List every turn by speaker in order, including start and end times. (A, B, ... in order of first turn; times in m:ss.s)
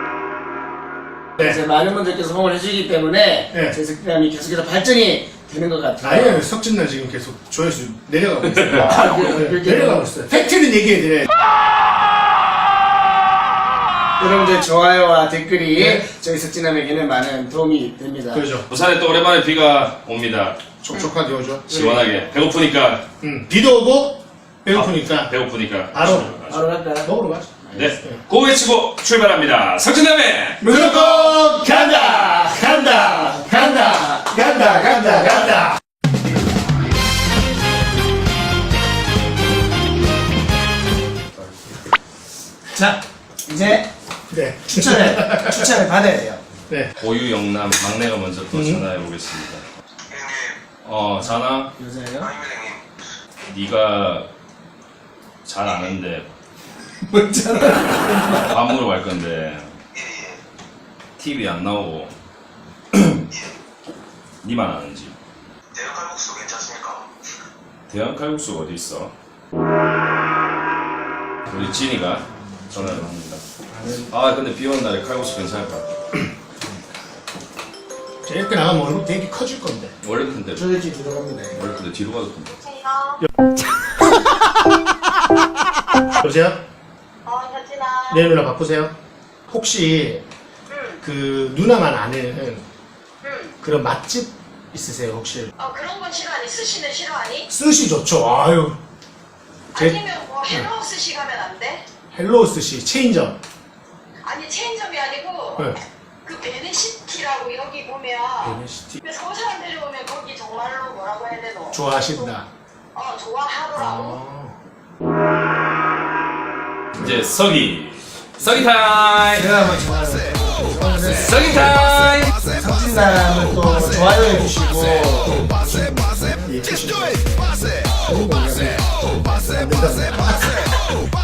0:01.4-0:06.5 A
0:06.0-0:11.3 B
0:08.8-0:10.0 A
0:14.2-0:18.5 A
0:15.8-0:16.1 B
0:18.3-0:18.7 B
0:18.7-0:20.6 C
0:20.8-0:22.0 B
0:21.7-0:23.0 C
0:23.2-0:25.3 B
0:24.7-0:26.6 C
0:25.9-0:26.4 B
0:26.5-0:27.1 A
0:27.0-0:28.2 B
0:27.7-0:30.6 C
0:30.6-0:35.7 A
0:30.6-0:31.6 B
0:32.6-0:35.8 B
0:42.7-0:43.9 A
0:44.3-0:45.7 B
0:44.7-0:46.4 A
0:47.0-0:49.6 C
0:48.5-0:48.8 B
0:50.1-0:50.6 D
0:50.8-0:51.7 C
0:51.8-0:52.3 A
0:52.2-0:52.8 D
0:53.5-0:54.3 C
0:55.4-0:56.3 C
0:57.1-0:58.4 A
0:58.3-0:59.8 C
0:59.9-1:00.4 D
1:01.2-1:02.1 C
1:02.9-1:03.2 C
1:04.4-1:05.1 C
1:05.7-1:07.1 D
1:07.9-1:09.1 C
1:11.5-1:13.4 C
1:13.7-1:14.1 A
1:14.1-1:15.9 C
1:18.2-1:19.9 B
1:20.0-1:20.7 C
1:20.6-1:21.6 A
1:21.5-1:22.5 C
1:22.5-1:23.2 E
1:26.2-1:26.6 B
1:27.3-1:28.3 E
1:28.1-1:28.9 B
1:29.5-1:30.2 B
1:30.7-1:31.0 E
1:31.0-1:32.6 B
1:33.2-1:33.5 E
1:33.6-1:35.5 B
1:35.6-1:37.5 E
1:37.5-1:38.8 B
1:39.7-1:41.8 E
1:42.1-1:43.4 B
1:44.2-1:45.7 E
1:46.2-1:52.3 E
1:48.4-1:49.0 B
1:51.7-1:52.5 B
1:52.9-1:54.2 E
1:53.8-1:54.6 B
1:56.9-1:59.7 C
1:59.3-2:01.7 A
2:01.1-2:02.3 C
2:02.6-2:05.4 A
2:06.4-2:10.6 B